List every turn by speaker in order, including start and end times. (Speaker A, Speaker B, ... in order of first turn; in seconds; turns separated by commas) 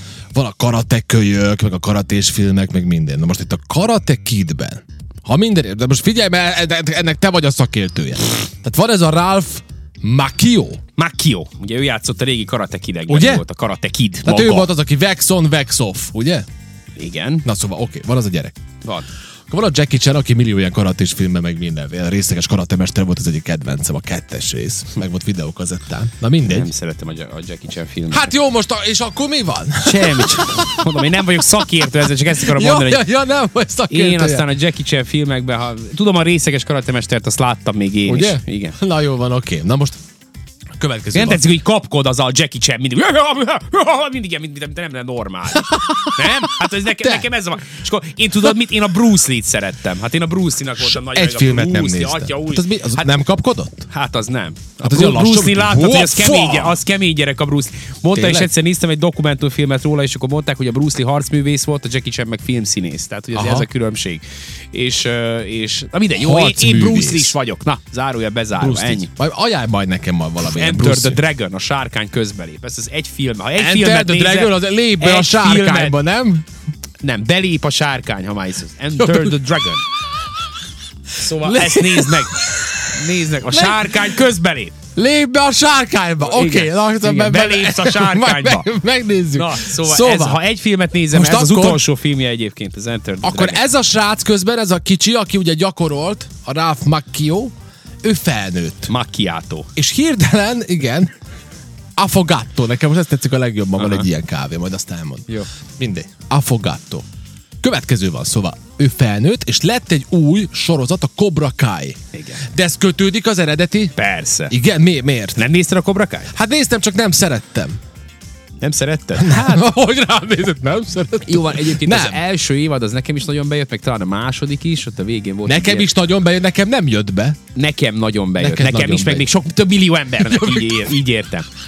Speaker A: 0.3-10.8, Speaker B: 11.0-14.7, Speaker A: 13.1-13.4, Speaker A: 14.2-16.4, Speaker B: 17.0-17.4, Speaker A: 17.4-18.6, Speaker A: 19.5-26.7, Speaker B: 26.4-28.3, Speaker A: 28.1-34.5, Speaker B: 29.8-33.0, Speaker B: 33.9-38.8, Speaker A: 38.1-40.0, Speaker A: 40.8-41.4, Speaker B: 41.1-53.1, Speaker A: 45.6-47.3, Speaker A: 50.8-53.9, Speaker B: 53.9-69.1, Speaker A: 54.8-56.8, Speaker A: 58.1-58.5, Speaker A: 63.3-63.6, Speaker A: 66.2-67.3, Speaker A: 68.6-71.2, Speaker B: 70.4-76.0, Speaker A: 73.6-76.4, Speaker B: 77.0-79.8, Speaker A: 79.0-79.3, Speaker A: 81.2-84.1, Speaker B: 81.2-84.7, Speaker A: 85.0-90.4, Speaker B: 86.2-88.7, Speaker B: 89.3-93.6, Speaker A: 91.1-91.8, Speaker A: 93.2-97.5, Speaker A: 98.0-98.9, Speaker B: 98.9-99.7, Speaker A: 99.8-101.1, Speaker A: 102.0-107.0, Speaker B: 103.8-104.1, Speaker A: 107.6-113.9, Speaker B: 112.1-112.4, Speaker B: 114.0-114.5, Speaker A: 114.5-115.4, Speaker B: 115.3-116.3, Speaker A: 116.3-117.8, Speaker B: 118.6-119.6, Speaker A: 119.2-122.2, Speaker B: 121.2-125.9, Speaker A: 125.5-127.4, Speaker B: 127.5-131.5, Speaker A: 128.4-129.3, Speaker A: 130.2-130.9